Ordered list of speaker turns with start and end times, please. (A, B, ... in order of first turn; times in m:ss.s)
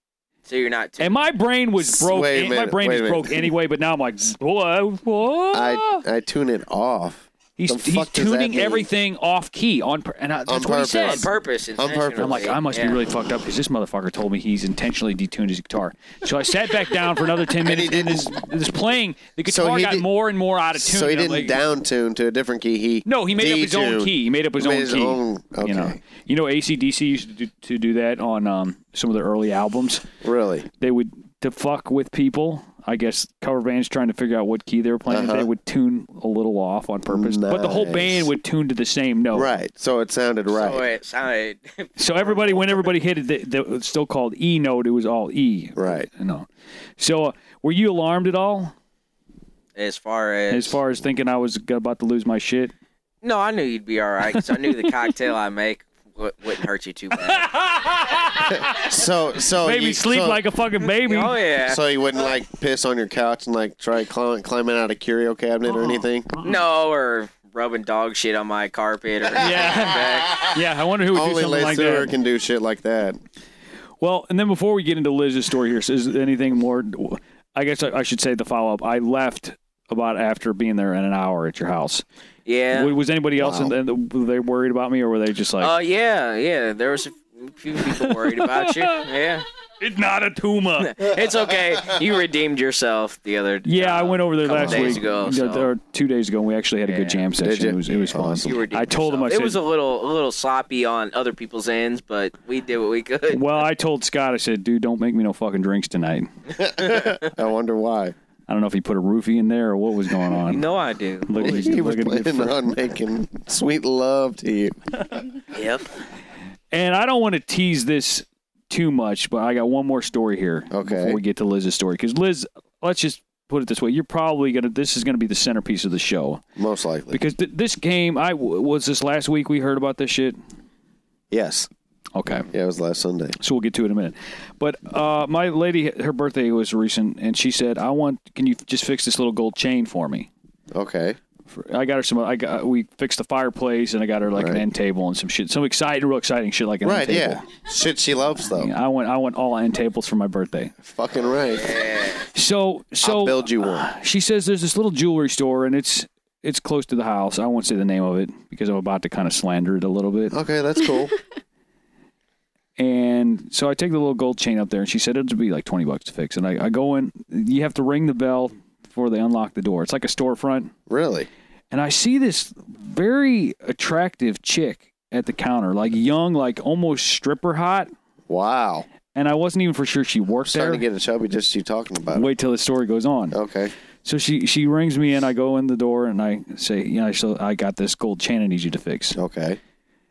0:00.5-0:01.2 A
0:01.0-0:06.0 B
0:01.8-0:03.5 C
0:05.5-0:08.9 C
0:07.6-0:11.3 B
0:10.5-0:12.5 C
0:10.9-0:13.0 A
0:12.2-0:21.6 B
0:17.6-0:18.3 C
0:19.5-0:20.0 C
0:20.8-0:26.0 C
0:23.1-0:30.0 B
0:30.2-0:30.7 C
0:30.8-0:39.5 B
0:35.1-0:35.5 C
0:37.1-0:38.3 C
0:39.3-0:40.8 C
0:40.5-0:42.9 A
0:42.0-0:46.5 B
0:45.8-0:46.1 C
0:47.0-0:48.7 B
0:49.8-0:50.8 A
0:50.5-0:52.7 B
0:53.2-0:57.5 A
0:54.3-0:54.9 B
0:57.3-0:58.9 B
0:58.7-1:00.4 C
0:59.6-1:01.4 B
1:01.0-1:01.8 A
1:01.6-1:06.3 C
1:05.7-1:06.5 B
1:06.4-1:10.5 A
1:09.4-1:12.1 B
1:11.1-1:13.2 C
1:14.0-1:22.0 B
1:22.5-1:22.9 A
1:22.7-1:25.7 B
1:23.4-1:23.7 C
1:25.6-1:29.5 A
1:27.9-1:29.0 B
1:29.8-1:31.0 B
1:30.8-1:35.7 A
1:33.6-1:39.6 B
1:34.5-1:35.0 C
1:36.9-1:37.3 A
1:37.4-1:38.6 C
1:38.2-1:43.4 A
1:43.3-1:46.3 B
1:46.6-1:48.2 C
1:46.9-1:47.2 A
1:48.5-1:50.6 B
1:50.3-1:51.7 A
1:51.2-1:52.6 B
1:51.4-1:54.8 C
1:55.5-1:55.9 A
1:56.7-2:06.4 B
2:00.7-2:01.2 C
2:06.6-2:07.2 C
2:07.1-2:10.4 B
2:11.3-2:11.7 C
2:12.2-2:12.5 B
2:12.5-2:13.4 C
2:13.4-2:20.3 B
2:20.7-2:21.2 C
2:21.5-2:27.5 B
2:24.4-2:24.6 C
2:26.8-2:28.7 C
2:28.5-2:30.8 B
2:30.8-2:31.8 C
2:31.6-2:32.2 A
2:32.3-2:40.4 B
2:33.0-2:33.9 C
2:40.3-2:41.1 C
2:42.8-2:50.7 B
2:50.9-2:51.3 C
2:51.7-2:57.9 B
2:58.3-2:58.9 C
2:59.2-3:00.8 B
3:00.5-3:02.3 C
3:02.1-3:03.4 B
3:03.3-3:03.7 C
3:04.0-3:09.2 B
3:09.2-3:09.6 C